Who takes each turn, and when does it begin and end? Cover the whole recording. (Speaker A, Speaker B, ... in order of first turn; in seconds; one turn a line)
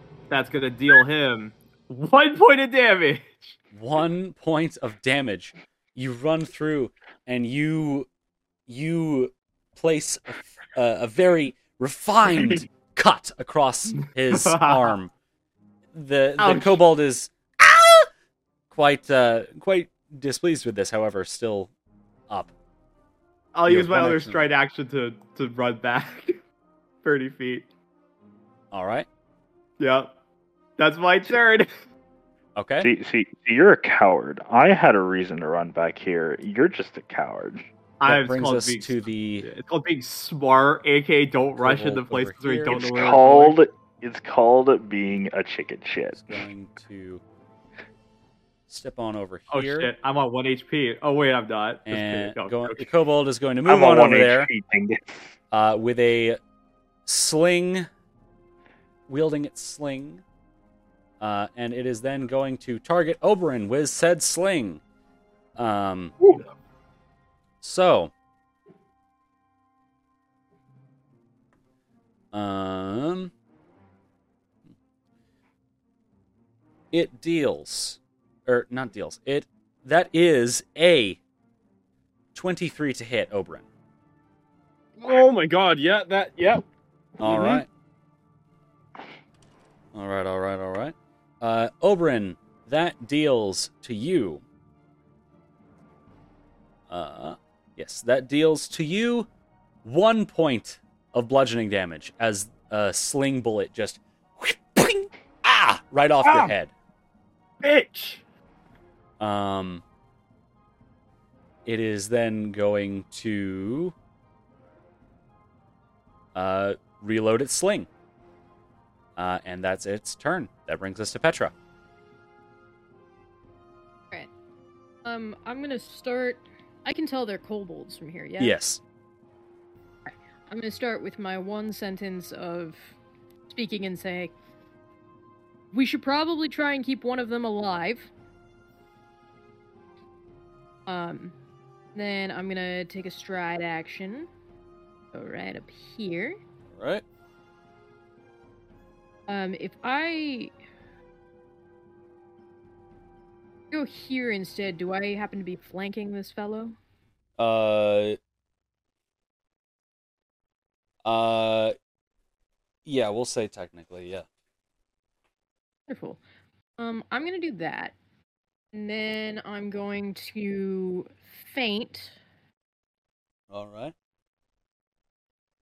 Speaker A: 0.3-3.6
Speaker B: 3.7-8.1
Speaker B: 8.7-15.1
Speaker A: 14.3-14.9
Speaker B: 15.9-18.1
Speaker A: 16.4-16.8
Speaker B: 18.7-21.7
Speaker A: 23.5-26.4
Speaker B: 23.7-24.5
Speaker A: 27.0-27.7
Speaker B: 28.7-29.1
Speaker A: 29.8-30.1
Speaker A: 30.8-31.7
Speaker B: 32.6-32.9
Speaker C: 32.8-37.6
Speaker A: 38.0-43.6
Speaker B: 38.1-39.5
Speaker B: 41.6-42.9
Speaker C: 42.7-46.5
Speaker B: 46.1-47.2
Speaker B: 48.7-49.9
Speaker A: 49.5-52.9
Speaker B: 51.9-54.5
Speaker C: 53.7-55.3
Speaker B: 55.5-56.4
Speaker B: 57.1-57.9
Speaker B: 59.1-60.2
Speaker B: 61.2-64.8
Speaker B: 65.6-66.2
Speaker B: 67.6-68.1
Speaker B: 72.3-73.3
Speaker B: 76.9-81.2
Speaker B: 82.3-83.7
Speaker D: 85.0-86.6
Speaker D: 87.2-87.7
Speaker B: 87.2-87.7
Speaker B: 89.9-94.4
Speaker B: 96.9-99.3
Speaker B: 99.8-106.7
Speaker D: 106.2-106.5
Speaker D: 107.6-108.2
Speaker B: 109.2-109.8
Speaker B: 111.7-114.0
Speaker B: 116.3-117.9
Speaker B: 119.2-121.5
Speaker E: 125.0-128.6
Speaker B: 128.4-128.8
Speaker E: 130.1-132.9
Speaker E: 133.5-134.3
Speaker E: 135.7-138.1
Speaker E: 140.9-141.3
Speaker E: 141.9-144.3
Speaker E: 145.1-146.4
Speaker B: 146.8-147.0
Speaker E: 149.3-150.5
Speaker E: 153.7-156.8
Speaker B: 157.4-158.2
Speaker B: 161.1-161.8
Speaker B: 162.8-164.3
Speaker E: 165.9-166.2
Speaker E: 166.8-167.9
Speaker E: 168.7-172.2
Speaker B: 173.5-173.9